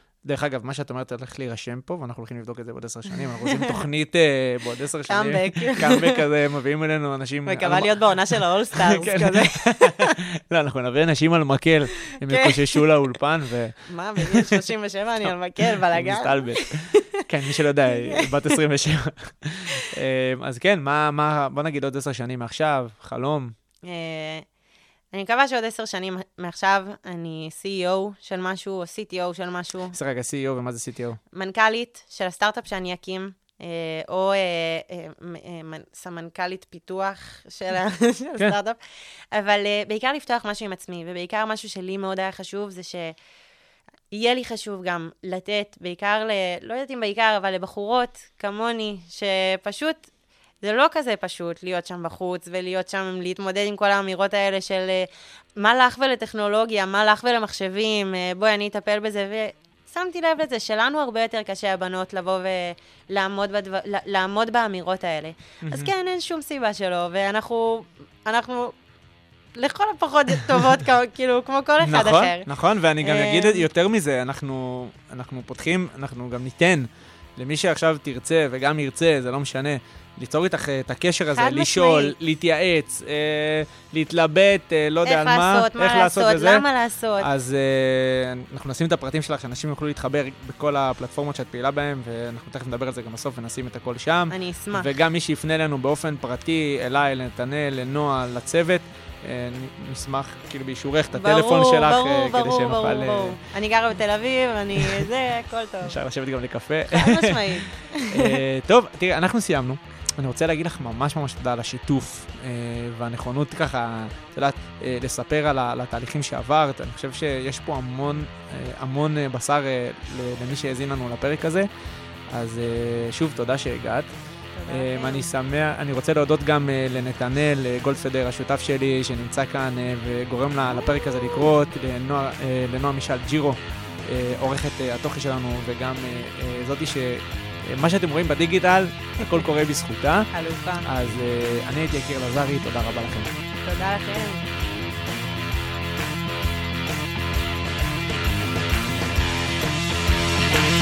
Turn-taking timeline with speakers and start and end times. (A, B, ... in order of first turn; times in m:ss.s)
0:00.2-0:13.8 A
0:05.1-0:06.2 B
0:07.4-0:10.2 B
0:12.1-0:12.8 B
0:13.9-0:17.2 B
0:14.3-0:14.6 A
0:15.6-0:23.5 A
0:17.8-0:18.6 B
0:23.8-0:24.4 B
0:25.1-0:30.0 B
0:29.9-0:31.2 A
0:31.3-0:38.8 B
0:39.3-0:43.1 B
0:44.1-0:50.1 B
0:50.6-1:08.7 B
1:05.6-1:05.9 A
1:09.6-1:12.5 B
1:11.8-1:26.6 A
1:13.0-1:13.6 B
1:21.3-1:22.1 B
1:25.0-1:27.3 B
1:27.2-1:43.4 A
1:34.3-1:34.9 B
1:41.1-1:46.0 B
1:44.8-1:45.1 A
1:45.8-2:01.7 A
1:46.9-1:48.4 B
2:02.3-2:04.1 A
2:04.6-2:05.3 B
2:04.7-2:20.3 A
2:20.3-2:20.9 B
2:20.8-2:23.3 A
2:23.6-2:24.5 B